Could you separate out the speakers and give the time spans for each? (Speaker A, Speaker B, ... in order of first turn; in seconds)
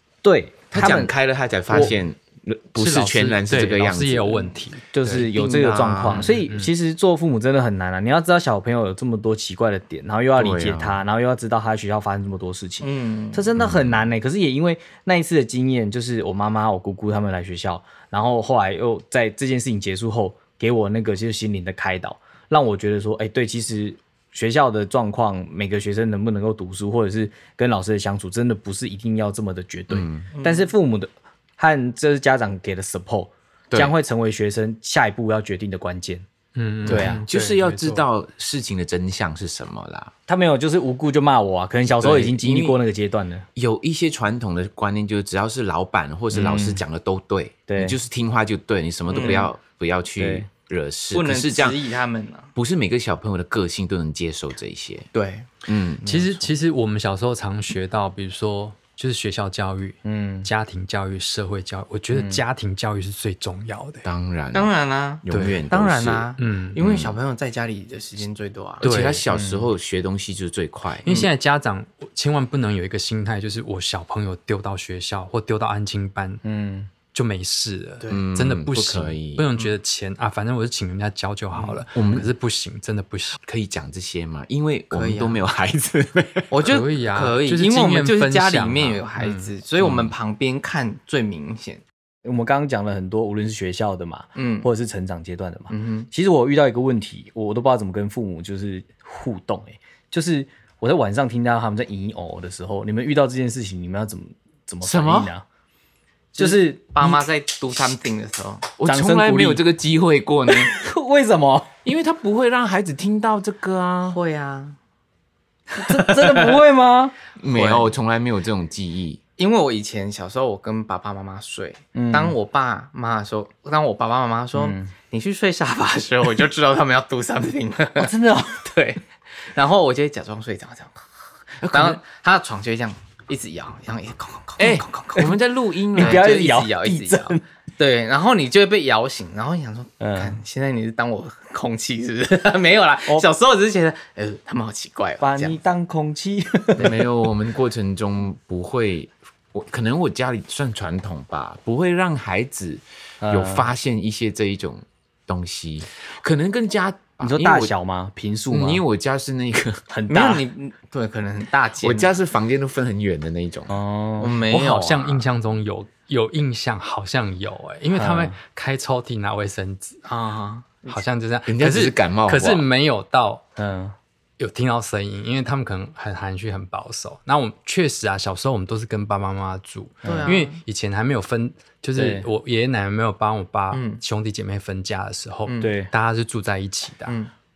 Speaker A: 0.2-1.1, 4.9-36.2, 36.9-37.2, 40.3-43.5, 46.3-46.8, 47.7-48.0, 50.2-50.5, 60.0-60.5, 62.1-62.4, 69.3-69.7, 76.4-76.9, 92.2-105.4, 106.3-107.2, 108.8-109.6, 110.5-111.7, 115.8-117.1, 121.9-122.3, 124.6-124.9, 128.0-128.7, 135.9-137.4, 140.0-140.4, 145.2-147.0, 153.2-153.7, 157.2-158.8, 159.9-160.4, 163.7-164.4, 167.9-168.3, 173.6-173.9, 180.0-180.3, 181.9-182.3, 185.6-185.9
Speaker B: 0.7-6.3, 10.4-11.0, 13.6-14.0, 29.9-30.3, 36.8-40.1, 42.0-42.8, 43.5-51.8, 52.5-55.1, 55.6-56.0, 64.0-64.7, 65.2-67.2, 68.8-71.1, 78.1-79.5, 81.9-82.3, 83.5-86.7, 89.8-90.1, 104.8-105.3, 108.8-110.7, 111.8-114.2, 117.4-119.2, 131.6-132.0, 134.6-136.2, 146.8-157.7, 158.5-159.8, 161.8-163.7, 171.4-172.7
Speaker C: 2.8-4.8, 6.1-6.7, 36.5-38.0, 56.0-64.0, 65.3-65.7, 66.4-66.8, 68.8-69.2, 71.0-76.4, 77.1-83.4, 86.7-89.5, 164.5-170.0, 170.9-173.4, 174.4-187.2
Speaker D: 12.8-13.4, 30.3-30.7, 49.1-49.5, 51.1-52.5, 55.1-56.5, 64.5-68.8, 81.5-81.8, 84.9-85.4, 86.5-91.8, 94.3-94.7, 95.7-96.1, 106.4-108.7, 114.1-114.8, 115.7-116.5, 117.5-117.8, 119.4-129.0, 129.5-131.0, 131.7-135.3, 136.0-145.6, 160.1-162.2, 164.2-165.2, 170.0-171.0, 180.0-180.6, 183.7-184.0, 185.5-185.7